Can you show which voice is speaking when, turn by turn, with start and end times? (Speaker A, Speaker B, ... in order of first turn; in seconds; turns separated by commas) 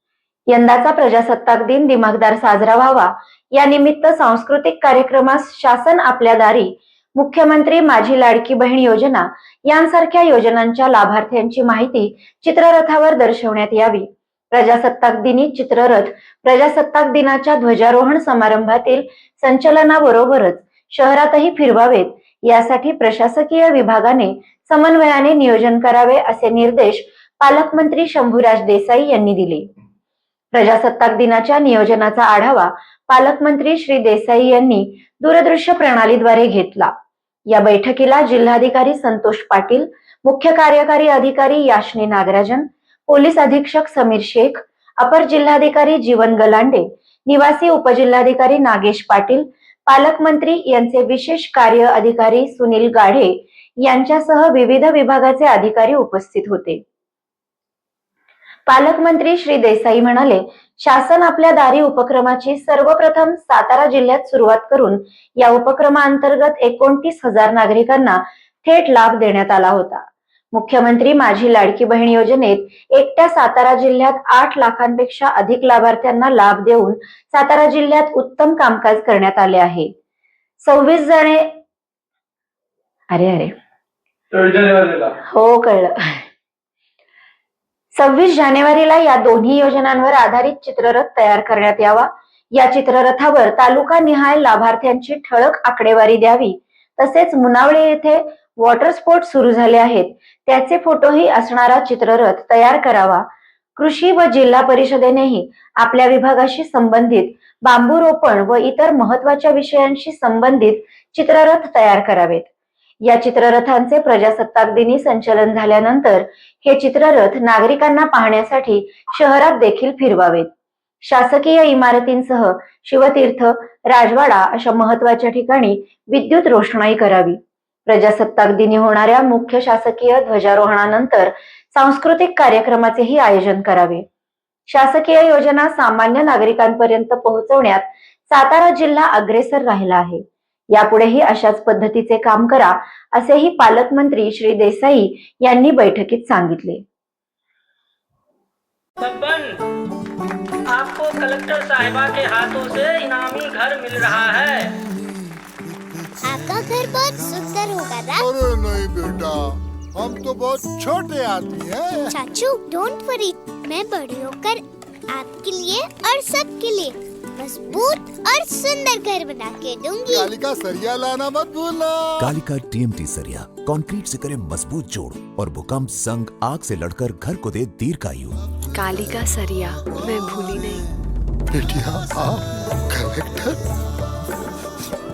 Speaker A: 0.5-29.7, Speaker A: 30.5-36.9, Speaker A: 37.5-56.8, Speaker A: 58.7-79.9, Speaker A: 80.6-81.5, Speaker A: 83.1-83.5, Speaker B: 84.3-85.1, Speaker A: 85.2-86.2, Speaker A: 88.0-103.2, Speaker A: 103.8-112.5, Speaker A: 113.0-120.5, Speaker A: 121.0-134.0, Speaker A: 134.7-146.8, Speaker B: 149.0-149.5, Speaker B: 150.7-154.7, Speaker C: 156.3-158.1, Speaker D: 158.1-162.2, Speaker C: 162.2-164.6, Speaker C: 165.1-170.1, Speaker D: 170.0-172.3, Speaker E: 172.2-178.4, Speaker F: 178.7-180.9, Speaker D: 181.5-183.6